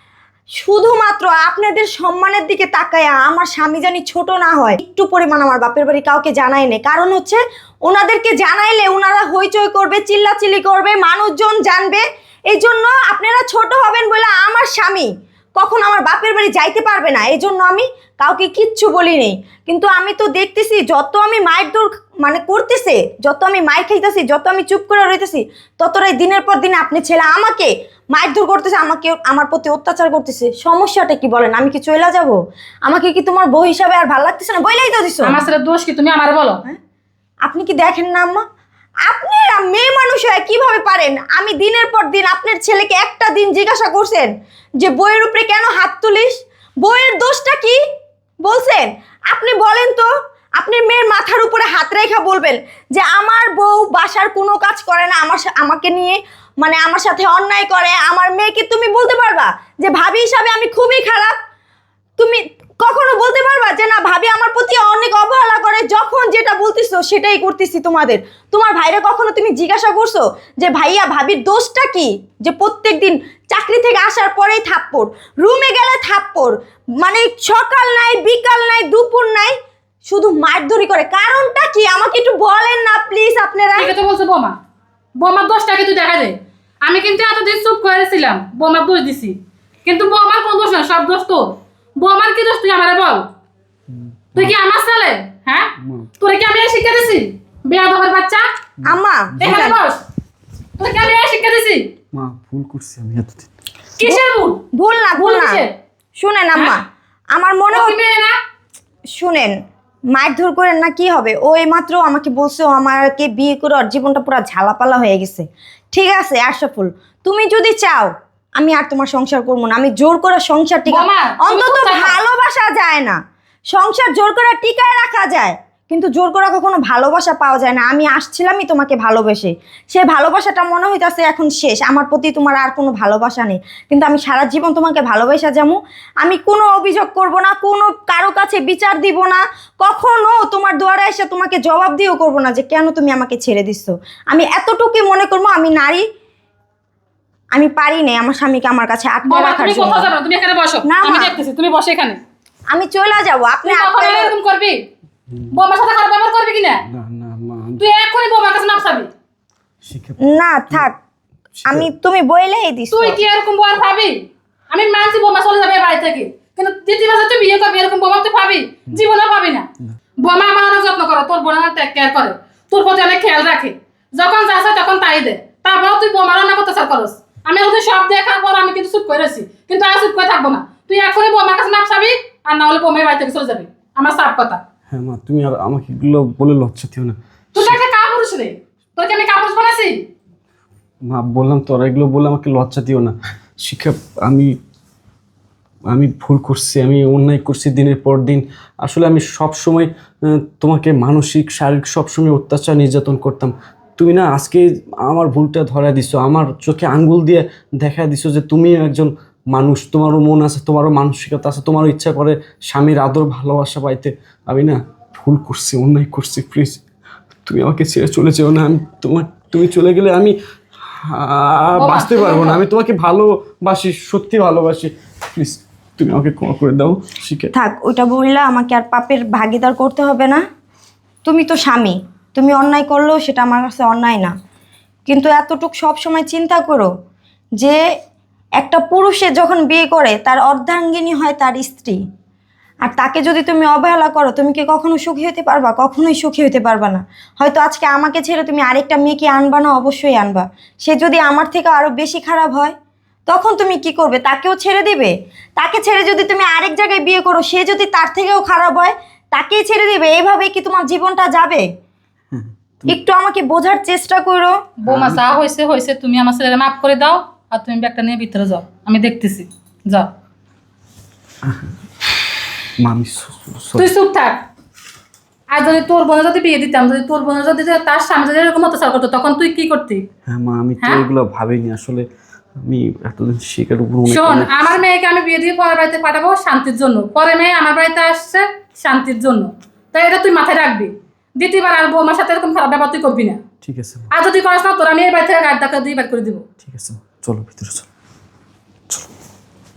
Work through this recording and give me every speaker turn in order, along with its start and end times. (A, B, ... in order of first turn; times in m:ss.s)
0:00.6-0:35.4 A
0:35.2-0:36.6 B
0:37.4-0:38.4 A
0:39.1-0:47.8 A
0:48.4-1:01.4 A
1:02.2-1:19.6 A
1:20.1-1:23.9 A
1:23.8-1:24.6 B
1:25.2-1:29.3 B
1:29.8-1:33.3 B
1:33.9-1:34.6 C
1:34.4-1:38.4 B
1:35.8-1:36.1 C
1:38.8-1:39.5 C
1:38.8-1:39.8 A
1:39.4-1:40.0 B
1:40.8-1:41.8 B
1:42.1-1:43.5 C
1:44.0-1:44.6 B
1:44.7-1:45.6 A
1:45.2-1:45.7 B
1:46.2-1:46.8 A
1:47.3-1:48.0 A
1:47.7-1:48.4 B
1:49.1-1:49.6 A
1:50.1-2:03.2 A
2:00.9-2:02.2 B
2:03.7-2:26.1 A
2:27.5-2:30.1 A
2:29.3-2:32.2 B
2:30.8-2:31.4 A
2:32.7-2:34.3 A
2:33.6-2:34.8 B
2:35.5-2:36.8 B
2:36.9-2:37.8 C
2:37.8-2:39.1 B
2:39.8-2:40.9 C
2:40.2-2:41.0 A
2:41.7-2:43.2 A
2:42.9-2:44.2 B
2:44.7-2:49.7 B
2:50.2-3:04.6 B
3:04.9-3:07.8 C
3:07.5-3:10.0 B
3:11.1-3:14.6 C
3:15.9-3:36.8 C
3:37.5-3:40.4 C
3:41.0-3:47.5 C
3:41.8-3:42.6 B
3:47.5-3:50.4 A
3:51.2-3:54.3 A
3:55.1-3:56.9 A
3:58.6-4:02.0 A
4:02.8-4:12.8 A
4:13.3-4:21.7 A
4:22.3-4:22.9 C
4:22.9-4:24.6 A
4:24.8-4:30.1 B
4:24.9-4:25.2 C
4:32.8-4:33.9 C
4:33.8-4:34.4 B
4:35.5-4:40.0 B
4:40.3-4:42.1 C
4:42.6-4:44.8 C
4:44.1-4:53.4 B
4:53.6-4:54.1 C
4:54.1-4:56.4 B
4:56.6-4:57.9 C